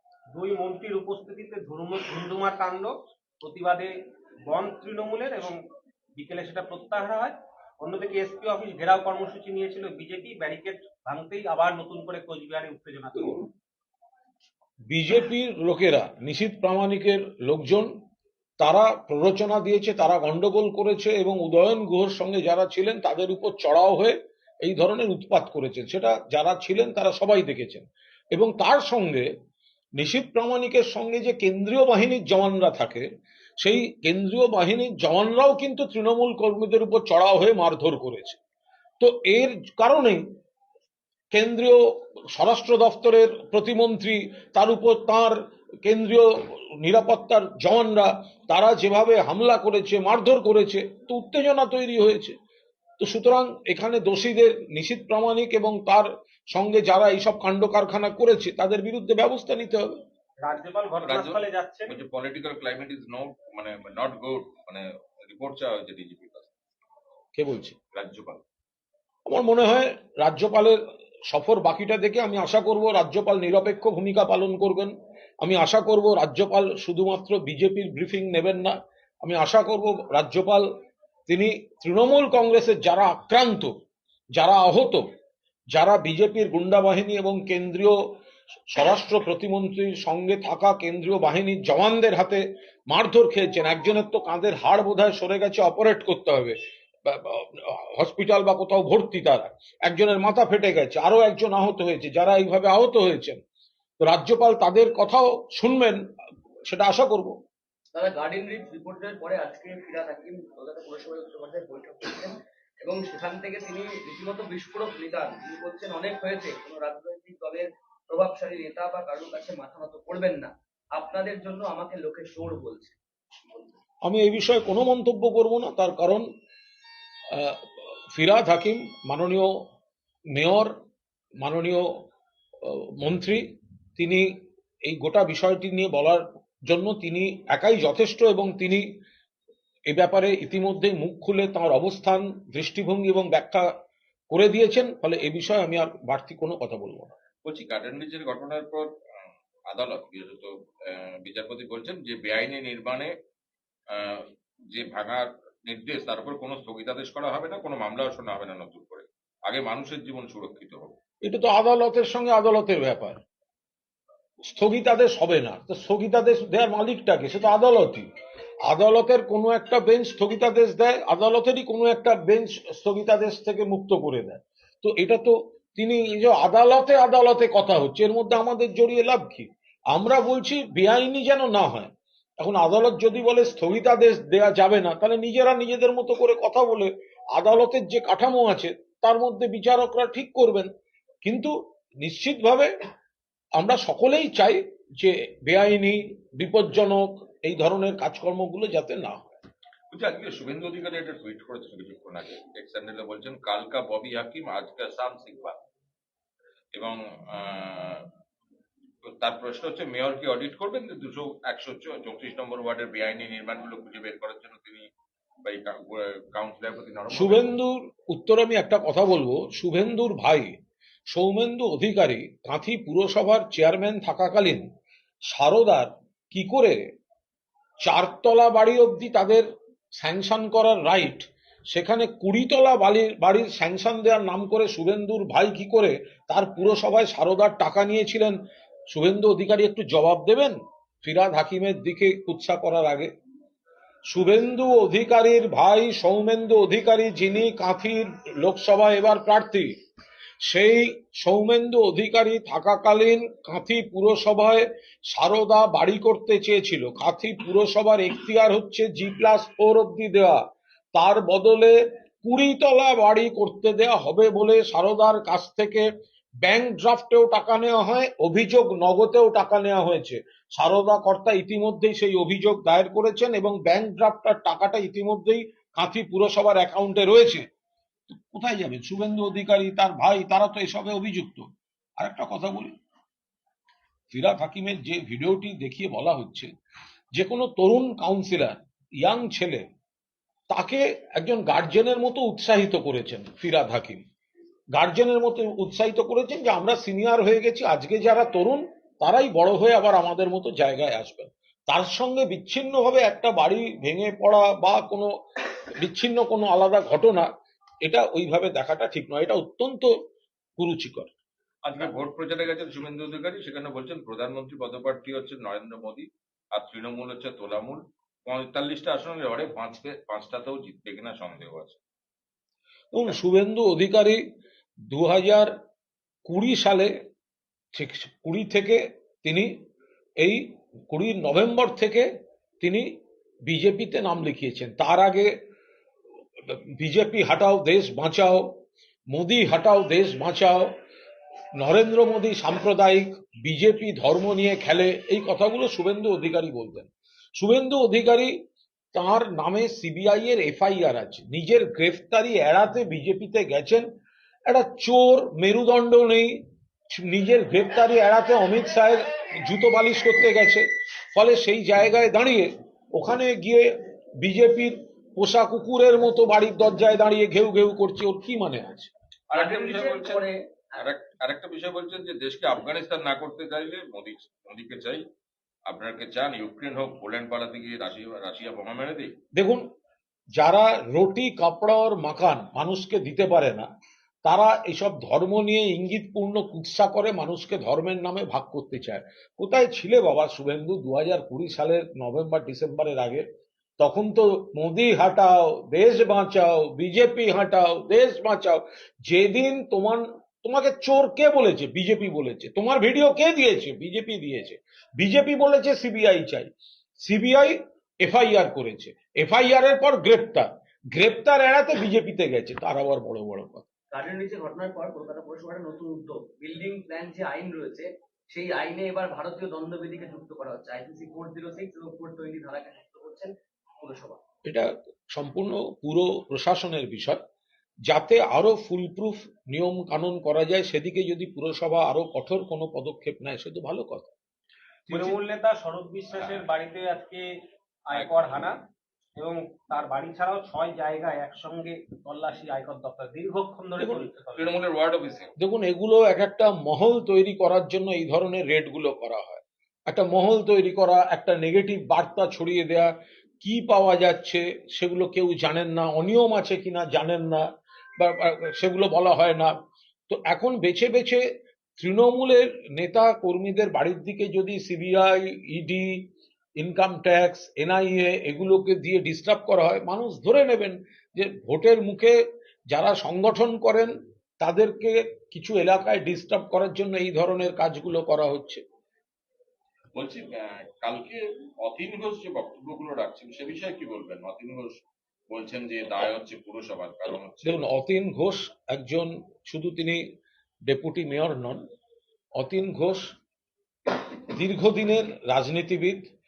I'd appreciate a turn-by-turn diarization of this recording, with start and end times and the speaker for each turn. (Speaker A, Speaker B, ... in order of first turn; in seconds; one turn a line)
Speaker A: 0.3-3.9
Speaker A: 4.5-5.6
Speaker A: 6.2-13.5
Speaker B: 14.9-17.9
Speaker B: 18.6-29.3
Speaker B: 30.0-33.1
Speaker B: 33.6-38.4
Speaker B: 39.0-40.2
Speaker B: 41.3-41.8
Speaker B: 42.3-52.3
Speaker B: 53.0-59.9
Speaker A: 60.4-62.0
Speaker C: 61.0-66.5
Speaker B: 67.3-67.8
Speaker C: 67.9-68.4
Speaker B: 69.2-80.7
Speaker B: 81.3-83.7
Speaker B: 84.3-85.0
Speaker B: 85.7-88.0
Speaker B: 88.7-103.4
Speaker B: 104.0-106.0
Speaker B: 106.7-107.3
Speaker D: 107.9-123.0
Speaker B: 124.0-126.2
Speaker B: 127.3-129.5
Speaker B: 130.3-130.7
Speaker B: 131.4-131.9
Speaker B: 132.6-133.4
Speaker B: 134.0-134.3
Speaker B: 134.8-138.8
Speaker B: 139.9-143.7
Speaker B: 144.3-147.2
Speaker C: 147.4-148.9
Speaker C: 149.7-153.1
Speaker C: 153.9-160.9
Speaker B: 161.2-163.2
Speaker B: 164.4-168.1
Speaker B: 168.7-190.7
Speaker B: 191.2-192.7
Speaker B: 193.6-199.4
Speaker C: 199.9-205.6
Speaker C: 206.7-208.0
Speaker C: 209.0-214.9
Speaker C: 215.4-217.5
Speaker B: 217.1-220.5
Speaker B: 221.1-224.6
Speaker B: 225.3-226.8
Speaker B: 227.8-238.4
Speaker B: 238.9-243.1
Speaker B: 244.1-249.7
Speaker B: 250.4-260.4
Speaker B: 260.9-265.9
Speaker B: 266.4-277.5
Speaker B: 278.1-281.5
Speaker B: 282.0-282.7
Speaker B: 284.1-286.5
Speaker B: 287.1-289.6
Speaker B: 290.5-294.0
Speaker B: 294.7-305.1
Speaker B: 305.7-307.3
Speaker B: 307.8-309.9
Speaker B: 310.6-311.1
Speaker C: 311.6-321.8
Speaker B: 322.9-324.2
Speaker B: 324.9-325.5
Speaker B: 326.2-326.9
Speaker B: 327.7-329.5
Speaker B: 330.2-332.1
Speaker B: 332.6-332.9
Speaker B: 333.4-335.3
Speaker B: 336.4-338.5
Speaker B: 339.1-340.7
Speaker B: 341.6-348.3
Speaker B: 348.9-353.9
Speaker B: 354.4-368.9
Speaker C: 369.3-370.2
Speaker D: 369.3-370.8
Speaker C: 370.8-375.0
Speaker C: 375.6-379.1
Speaker B: 379.3-379.6
Speaker B: 380.4-383.7
Speaker B: 384.2-393.2
Speaker B: 393.8-406.5
Speaker B: 407.0-413.7
Speaker D: 413.9-424.2
Speaker B: 424.4-427.2
Speaker B: 427.9-434.1
Speaker B: 434.9-435.2
Speaker A: 434.9-437.2
Speaker C: 436.1-436.5
Speaker A: 437.9-438.6
Speaker C: 437.9-438.5
Speaker A: 439.2-444.5
Speaker B: 443.8-444.1
Speaker C: 444.3-445.3
Speaker B: 445.4-457.4
Speaker B: 458.0-459.5
Speaker B: 460.1-461.2
Speaker B: 461.8-466.0
Speaker B: 466.6-472.2
Speaker B: 472.7-478.6
Speaker C: 479.9-487.6
Speaker B: 487.4-490.0
Speaker B: 490.7-491.6
Speaker B: 492.4-493.1
Speaker B: 493.9-496.0